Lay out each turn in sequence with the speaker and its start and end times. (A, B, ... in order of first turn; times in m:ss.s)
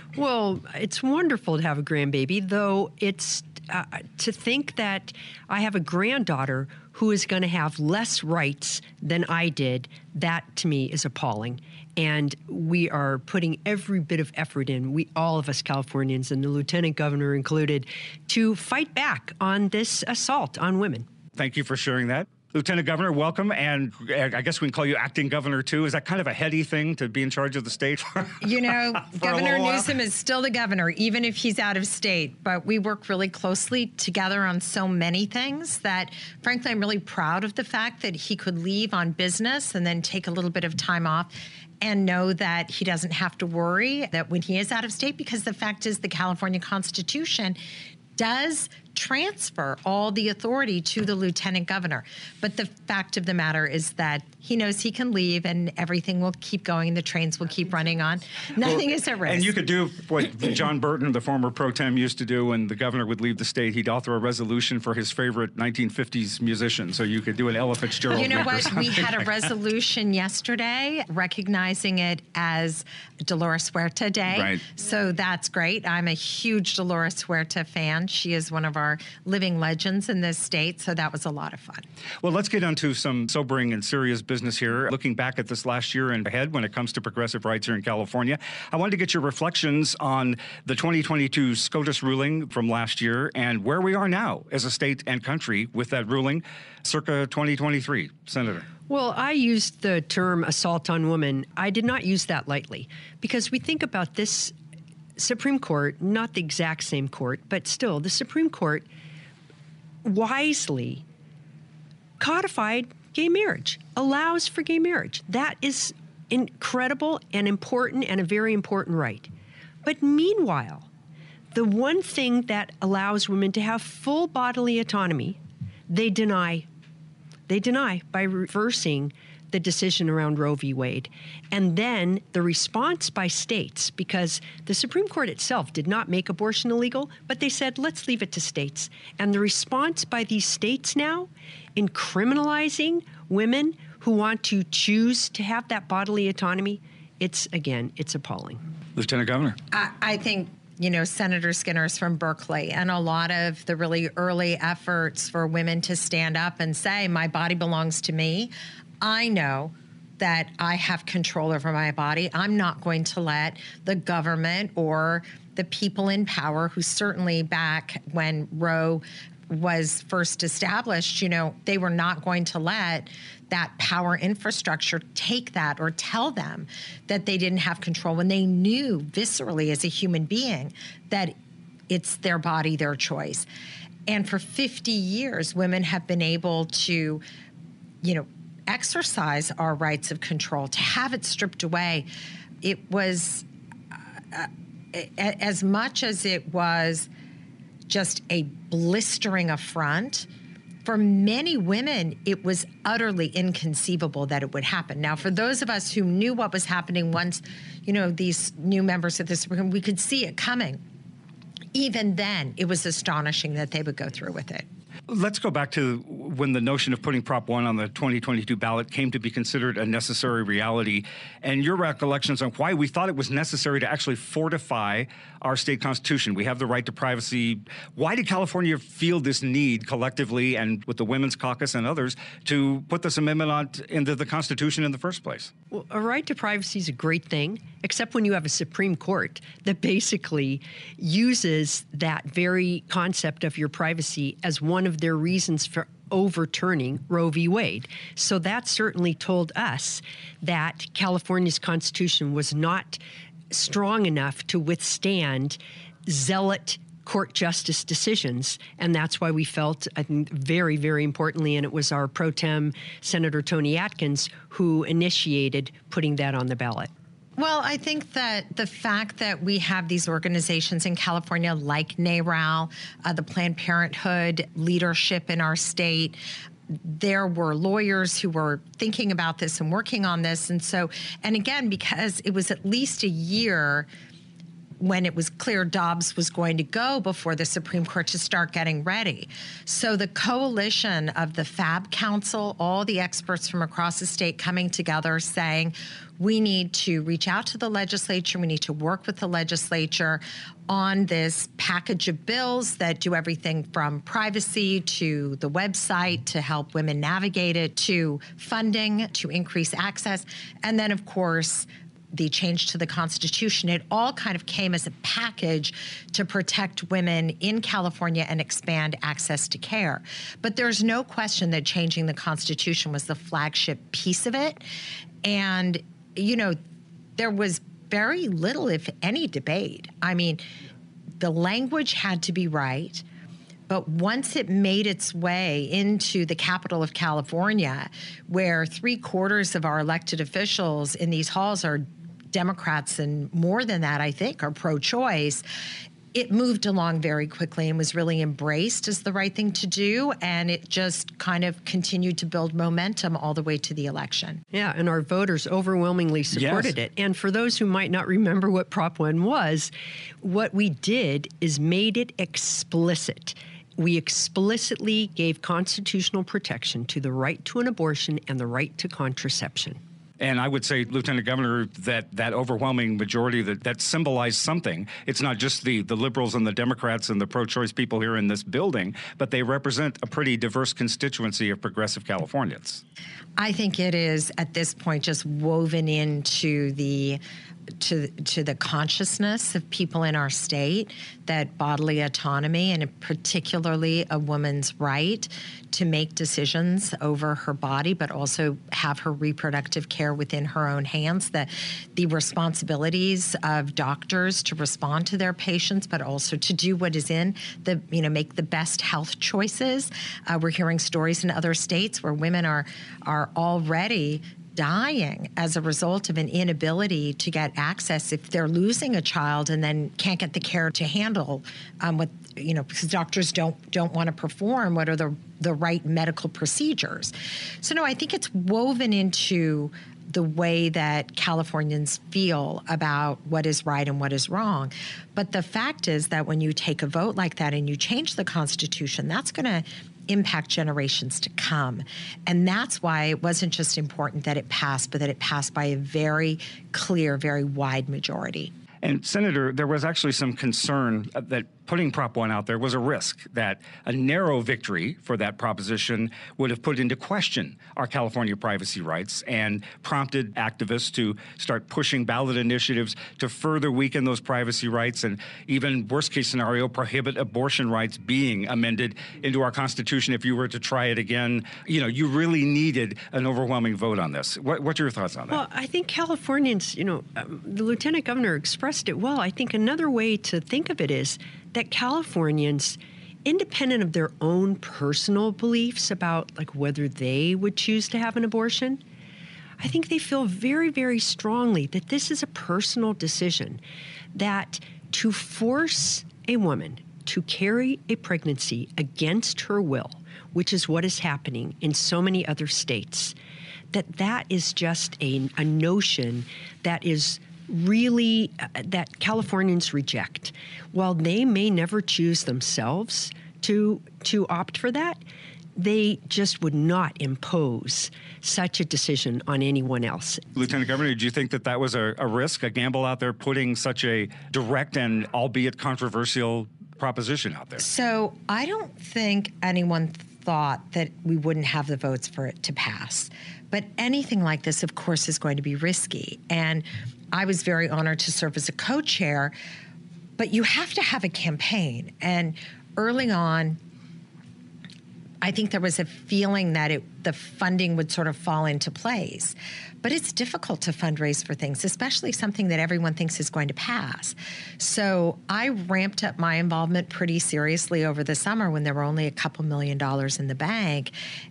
0:00.2-0:21.0 A
0:21.4-0:29.9 B
0:28.4-0:47.6 C
0:48.2-0:59.5 C
0:58.6-1:09.2 B
1:08.1-1:21.8 C
1:14.3-1:14.6 B
1:22.2-1:38.6 B
1:38.9-1:44.5 A
1:45.2-1:48.8 A
1:50.0-1:51.0 A
1:52.2-1:59.3 A
1:59.8-2:00.9 A
2:01.5-2:06.6 A
2:07.5-2:28.6 A
2:29.0-2:29.6 B
2:29.7-3:01.3 C
3:01.9-3:03.4 C
3:04.1-3:07.2 C
3:08.0-3:12.1 C
3:12.6-3:17.1 C
3:17.9-3:20.3 C
3:20.8-3:30.8 C
3:31.7-3:34.6 C
3:35.1-3:55.5 B
3:55.7-4:26.9 A
4:27.4-4:36.2 C
4:36.7-4:43.9 C
4:44.8-5:24.6 C
5:25.2-5:26.6 C
5:27.2-5:30.4 C
5:31.2-5:33.0 C
5:33.7-5:45.4 C
5:46.1-5:54.4 C
5:54.5-5:59.7 A
5:56.3-5:56.7 B
6:00.2-6:09.8 A
6:10.2-6:22.8 B
6:23.4-6:27.2 C
6:27.8-7:28.5 C
7:28.8-7:55.4 B
7:55.3-8:08.8 A
8:09.6-8:13.6 A
8:14.1-8:23.1 A
8:23.7-8:35.0 A
8:35.6-8:40.2 A
8:40.3-8:47.6 B
8:47.6-8:59.3 C
9:00.2-9:03.6 C
9:05.2-9:20.9 C